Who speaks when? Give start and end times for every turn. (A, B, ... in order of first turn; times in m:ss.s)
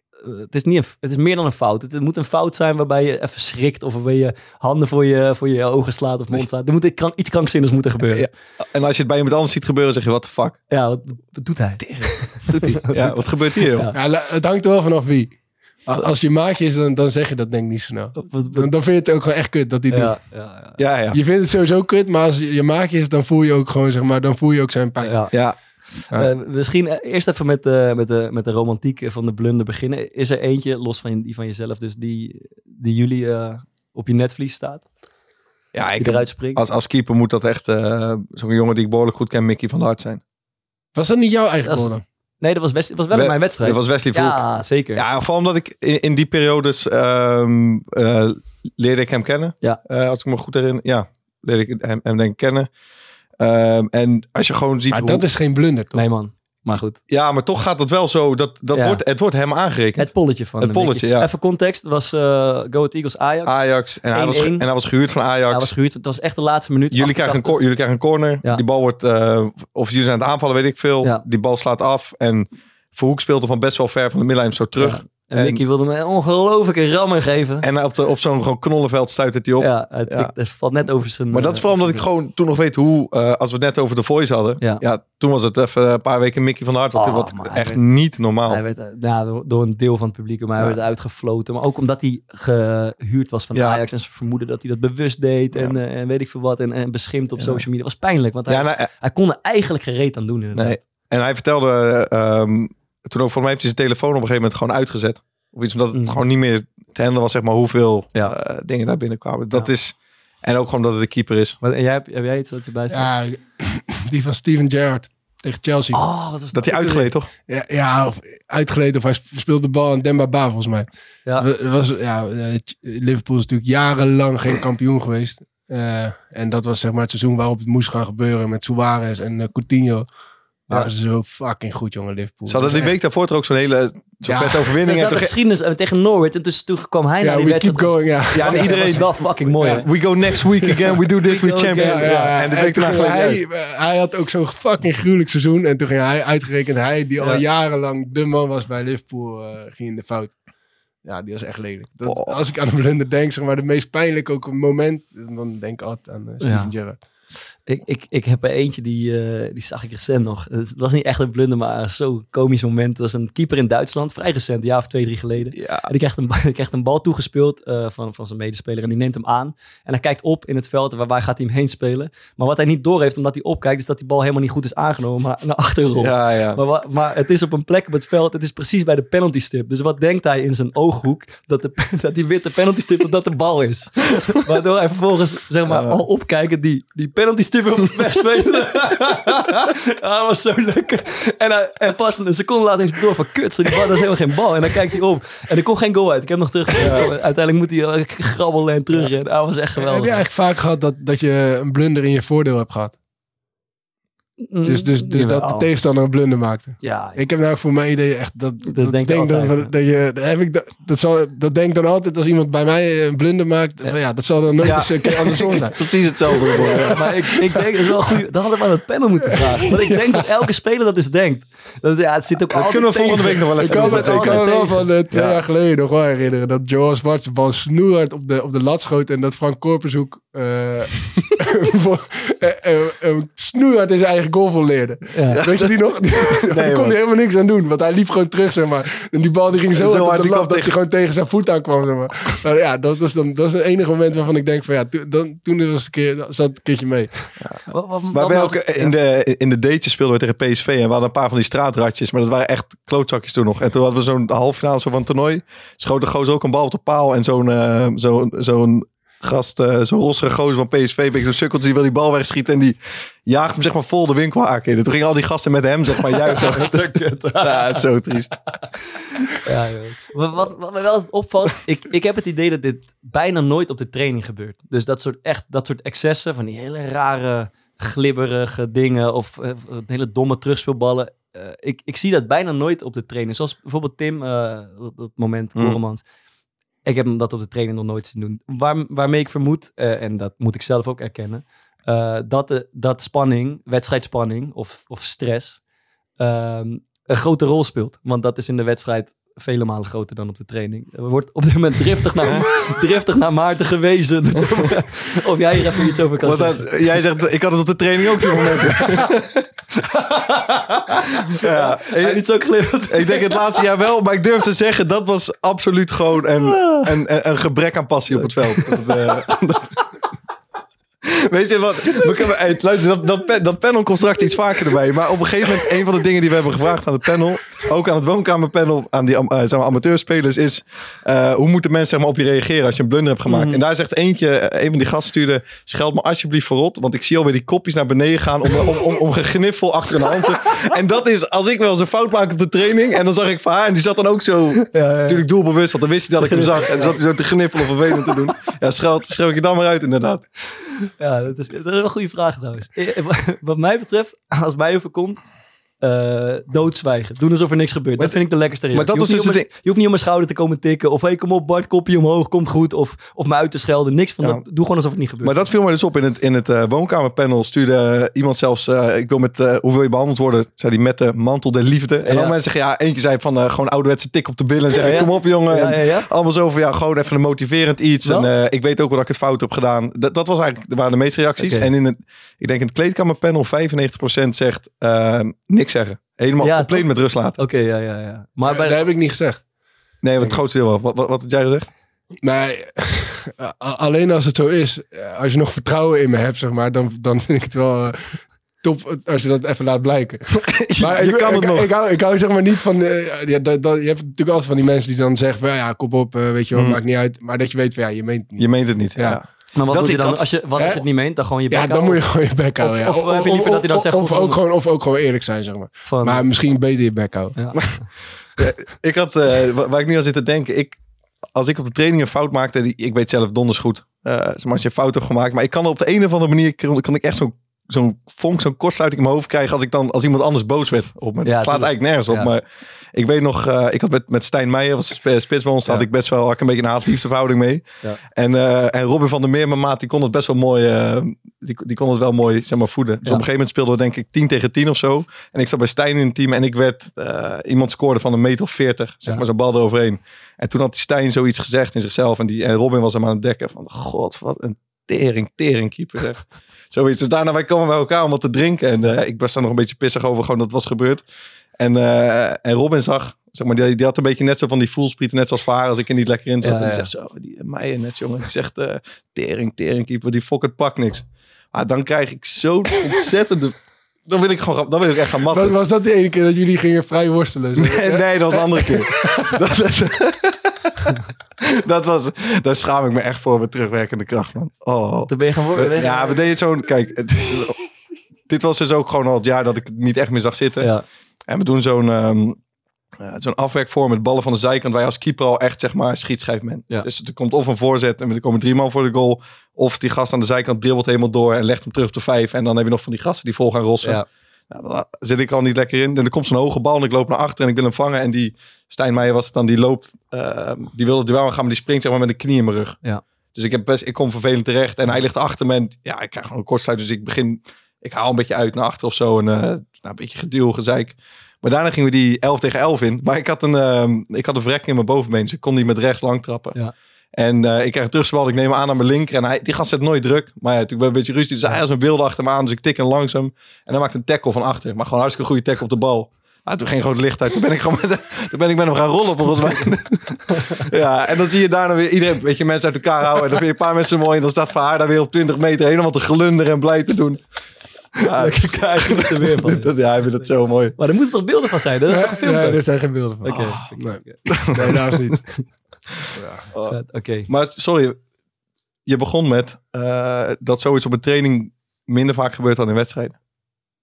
0:00.2-0:08.3 A
0:08.1-0:10.6 B
0:10.7-0:14.0 A
0:11.8-0:13.9 B
0:13.9-0:20.2 C
0:18.2-0:18.7 A
0:19.9-0:20.8 A
0:20.8-0:21.2 B
0:21.1-0:25.3 C
0:25.0-0:25.3 A
0:25.3-0:25.6 B
0:26.0-0:34.9 A
0:35.7-0:40.2 B
0:36.0-0:36.6 A
0:41.0-0:42.0 C
0:41.7-0:45.0 A
0:43.1-0:44.4 B
0:44.9-0:52.7 B
0:53.4-0:55.2 B
0:54.9-0:56.0 C
0:55.9-0:57.0 A
0:57.1-1:01.3 B
0:58.7-0:59.0 A
1:00.0-1:04.7 A
1:03.4-1:05.7 B
1:05.5-1:07.6 A
1:06.9-1:15.6 B
1:14.8-1:17.7 A
1:17.6-1:20.3 B
1:19.6-1:22.0 A
1:21.3-1:28.6 B
1:26.9-1:27.8 A
1:28.5-1:40.8 A
1:33.5-1:33.8 B
1:37.4-1:37.6 B
1:38.5-1:38.9 B
1:40.6-1:51.6 B
1:45.9-1:46.2 A
1:51.6-1:53.1 A
1:52.9-1:56.0 C
1:55.9-1:57.0 A
1:56.5-1:57.3 B
1:57.5-2:00.9 C
2:01.4-2:10.1 C
2:10.7-2:12.9 C
2:12.5-2:15.3 B
2:14.3-2:14.7 C
2:14.9-2:19.9 A
2:17.2-2:19.0 C
2:18.3-2:23.4 B
2:21.2-2:22.4 A
2:21.8-2:30.4 C
2:31.0-2:37.0 C
2:32.0-2:32.4 B
2:36.4-2:36.7 A
2:37.6-3:20.2 A
2:45.5-2:45.9 B
2:56.0-2:56.6 B
3:05.7-3:06.0 B
3:16.8-3:17.1 B
3:19.8-3:23.0 C
3:24.4-3:25.7 A
3:24.7-3:35.8 C
3:26.8-3:27.2 A
3:28.7-3:29.7 A
3:34.6-3:37.0 B
3:36.4-3:37.6 C
3:36.6-3:44.9 A
3:39.9-3:40.2 C
3:42.5-3:44.5 B
3:43.6-4:07.3 C
3:45.1-3:45.4 B
3:55.1-3:55.4 A
3:55.3-3:55.7 B
3:56.4-3:57.0 B
3:59.7-4:00.7 B
4:07.7-4:08.9 A
4:08.1-4:28.4 B
4:26.3-4:27.8 A
4:29.4-4:46.0 A
4:46.8-4:55.6 A
4:56.2-5:06.8 A
5:02.2-5:02.5 B
5:06.2-5:09.5 B
5:08.5-5:09.1 A
5:09.7-5:13.6 A
5:11.3-5:12.3 B
5:12.8-5:19.8 B
5:16.5-5:16.9 A
5:18.2-5:19.0 A
5:21.0-5:50.3 B
5:33.3-5:33.6 A
5:44.6-5:45.2 A
5:46.2-5:47.0 A
5:51.0-5:55.2 A
5:55.8-6:05.5 A
5:58.0-5:59.5 B
6:05.2-6:27.4 B
6:12.0-6:12.4 A
6:14.8-6:16.1 A
6:21.4-6:21.7 A
6:26.4-6:28.9 A
6:28.5-6:29.4 C
6:30.0-6:31.7 B
6:32.2-6:49.2 C
6:40.4-6:41.7 B
6:46.5-6:46.8 B
6:48.4-6:50.3 B
6:49.5-6:54.4 A
6:50.6-6:50.8 C
6:51.5-6:57.6 C
6:55.9-6:56.2 A
6:57.4-6:57.9 A
6:58.4-7:00.8 B
7:01.3-7:41.0 B
7:11.2-7:12.3 A
7:41.6-7:55.6 B
7:46.4-7:46.9 A
7:55.3-7:59.4 C
7:57.6-8:07.6 B
8:05.1-8:06.2 A
8:08.3-8:10.7 B
8:10.6-8:10.8 A
8:11.3-8:12.4 B
8:13.0-8:32.8 B
8:33.4-8:46.6 B
8:47.1-9:07.3 B
9:07.9-9:10.8 B
9:08.2-9:09.7 A
9:10.8-9:12.6 A
9:11.9-9:15.5 C
9:13.2-9:14.3 A
9:13.3-9:13.7 B
9:14.3-9:15.1 B
9:16.2-9:16.4 C
9:16.5-9:18.0 B
9:16.7-9:17.3 A
9:18.9-9:23.2 B